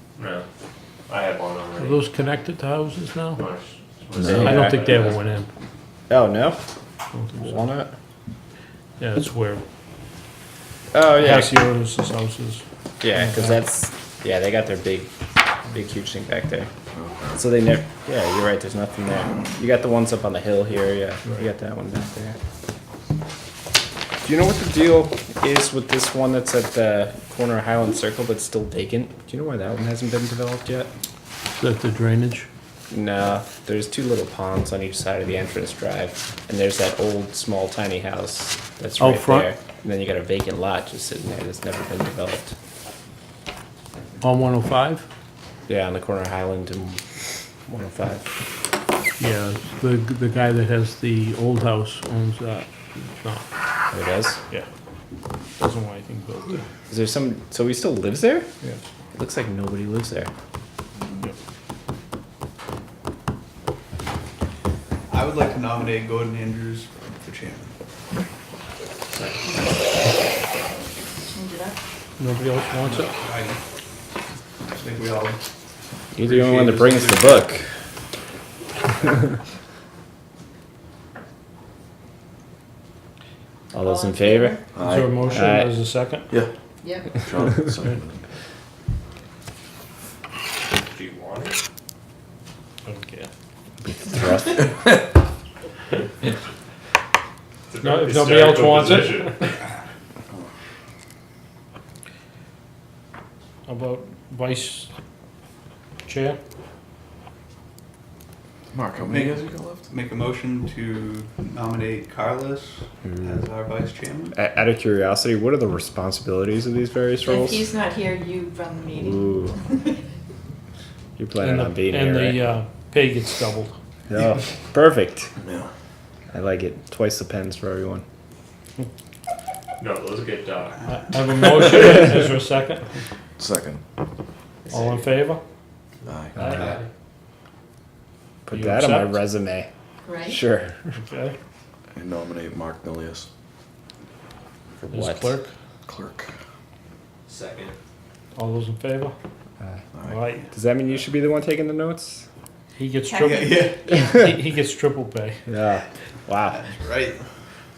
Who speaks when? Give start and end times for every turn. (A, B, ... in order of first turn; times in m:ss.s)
0:00.2-0:00.4 A
0:01.1-0:02.0 A
0:01.8-0:03.4 B
0:03.4-0:05.2 A
0:04.2-0:05.1 C
0:04.4-0:05.5 B
0:06.1-0:06.6 C
0:07.1-0:07.7 B
0:07.4-0:07.9 C
0:09.0-0:09.6 B
0:10.9-0:11.5 C
0:11.1-0:13.6 B
0:13.0-0:15.1 C
0:15.6-0:16.7 C
0:17.0-0:17.4 D
0:17.4-0:22.4 C
0:24.2-0:30.9 C
0:31.6-0:32.5 B
0:32.9-0:42.5 C
0:39.0-0:39.5 B
0:44.2-0:45.1 B
0:45.7-0:47.0 C
0:47.7-0:48.2 C
0:49.2-0:53.5 B
0:53.9-0:54.4 C
0:55.6-0:56.6 B
0:56.9-0:58.5 C
0:59.2-1:00.3 C
1:05.1-1:07.7 E
1:11.3-1:11.8 F
1:12.2-1:13.2 B
1:12.8-1:13.6 E
1:14.7-1:15.4 E
1:16.2-1:17.7 C
1:16.2-1:17.5 E
1:23.7-1:24.6 C
1:23.8-1:24.7 F
1:24.8-1:25.3 D
1:24.8-1:26.3 B
1:25.3-1:25.7 C
1:26.8-1:27.2 F
1:27.1-1:28.2 D
1:30.7-1:31.6 A
1:32.8-1:33.3 B
1:33.8-1:34.8 C
1:37.7-1:39.6 A
1:37.8-1:39.5 B
1:43.7-1:44.9 B
1:46.1-1:46.4 B
1:48.7-1:49.9 D
1:49.0-1:54.4 E
1:54.3-1:57.7 C
1:57.4-1:59.2 F
1:59.0-1:59.6 C
2:01.2-2:02.4 C
2:01.4-2:03.8 B
2:04.1-2:05.3 C
2:06.3-2:08.0 C
2:09.8-2:11.0 A
2:10.8-2:13.0 B
2:13.4-2:13.8 D
2:14.7-2:15.1 A
2:14.7-2:15.4 B
2:16.0-2:16.4 D
2:16.4-2:16.7 B
2:16.4-2:16.9 A
2:16.4-2:16.7 C
2:18.5-2:19.7 C
2:18.5-2:19.2 B
2:20.1-2:20.4 F
2:20.3-2:21.0 C
2:21.0-2:21.4 B
2:22.0-2:23.3 D
2:24.8-2:25.3 C
2:24.9-2:25.5 B
2:25.9-2:26.3 D
2:27.3-2:27.8 A
2:28.4-2:29.1 B
2:29.9-2:30.2 D
2:30.1-2:30.5 B
2:30.5-2:32.3 C
2:32.8-2:35.5 B
2:33.2-2:33.9 E
2:35.5-2:36.7 C
2:36.5-2:37.2 E